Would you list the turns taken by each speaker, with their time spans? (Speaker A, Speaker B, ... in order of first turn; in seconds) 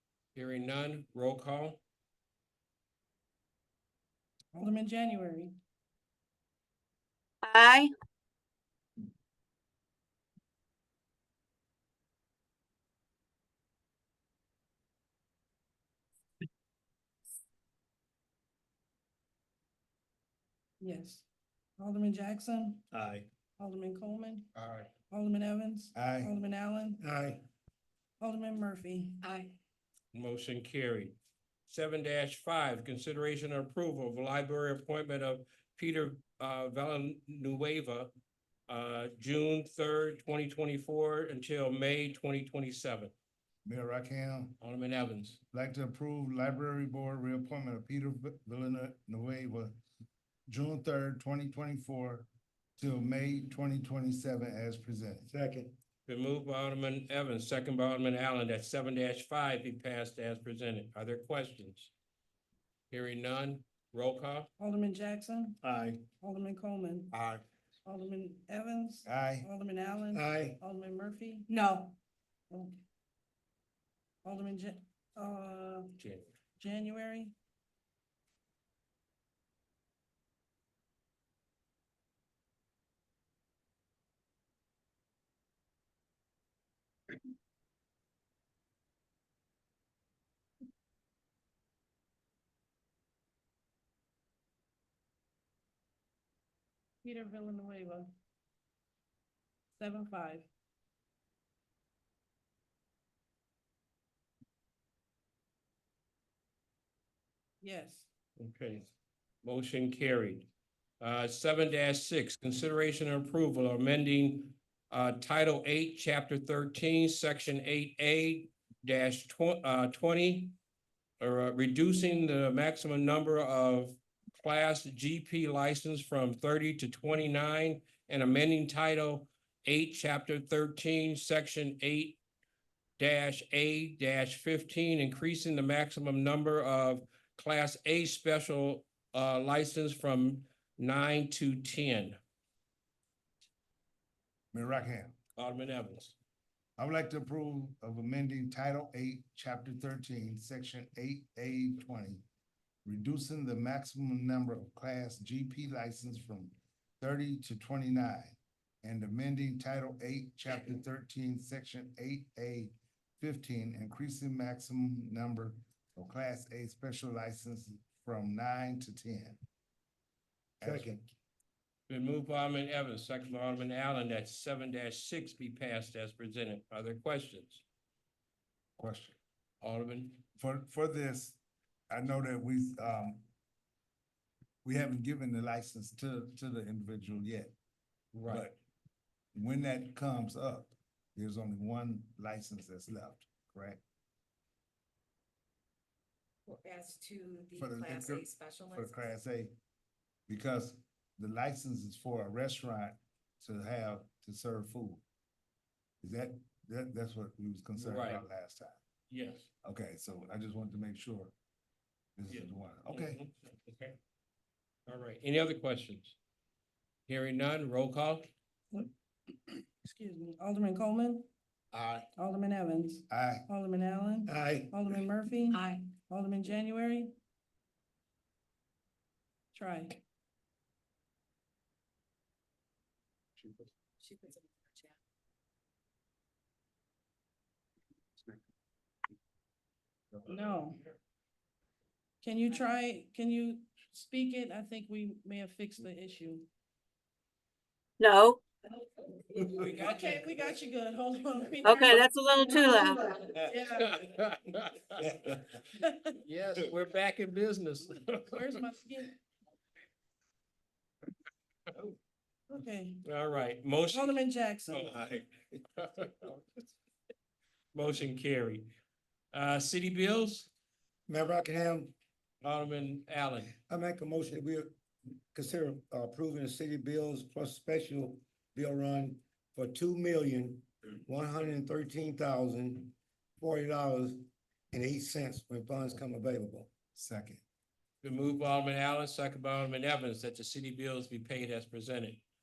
Speaker A: 0.3-1.8, 30.1-31.2, 31.7-38.1, 38.7-43.1, 44.6-45.4, 56.1-61.9, 62.9-64.5, 76.0-76.3, 108.4-108.9, 109.4-110.5, 111.0-120.6, 121.2-132.2, 133.0-142.2, 145.4-146.2, 171.9-177.6, 179.6-180.2, 188.1-188.5, 207.8-208.2, 209.1-209.5, 212.3-214.0, 214.9-216.2, 217.1-218.3, 249.4-250.2, 253.6-255.4, 256.2-258.5, 263.1-266.4, 267.7-268.7, 269.3-270.5, 272.4-273.5, 288.0-292.2
Speaker B: 4.5-5.5, 20.8-21.3, 21.8-22.8, 23.6-24.5, 25.1-27.0, 28.2-29.3, 64.6-65.6, 66.2-67.1, 67.9-71.6, 72.5-72.8, 74.2-75.9, 76.6-77.3, 97.0-98.1, 99.8-100.5, 107.6-108.1, 219.8-221.3, 222.2-227.1, 229.5-230.0, 240.3-240.8, 242.2-246.5, 249.5-254.1, 255.8-256.1, 258.1-259.2, 262.5-263.0, 263.9-264.9
Speaker C: 7.4-7.9, 248.0-248.4, 251.6-253.1
Speaker D: 25.9-26.3, 43.6-44.6, 45.5-49.7, 50.5-55.3, 69.1-69.5, 144.5-145.2, 146.8-152.2, 152.8-169.4, 170.6-171.0, 178.8-179.2, 180.4-181.4, 181.9-183.2, 184.6-187.5, 188.3-188.6, 189.3-193.8, 197.6-199.5, 200.3-205.0, 206.0-208.8, 209.6-211.3, 212.2-213.2, 223.1-223.5, 286.9-287.4
Speaker E: 27.0-27.4, 55.3-55.7, 65.6-66.0, 67.1-67.4, 70.1-70.6, 170.6-171.0, 221.7-222.1, 224.3-224.8, 271.1-271.9, 273.6-274.8, 275.3-286.7
Speaker F: 29.2-29.5, 71.5-71.9, 196.5-199.1, 225.5-225.9, 234.0-235.0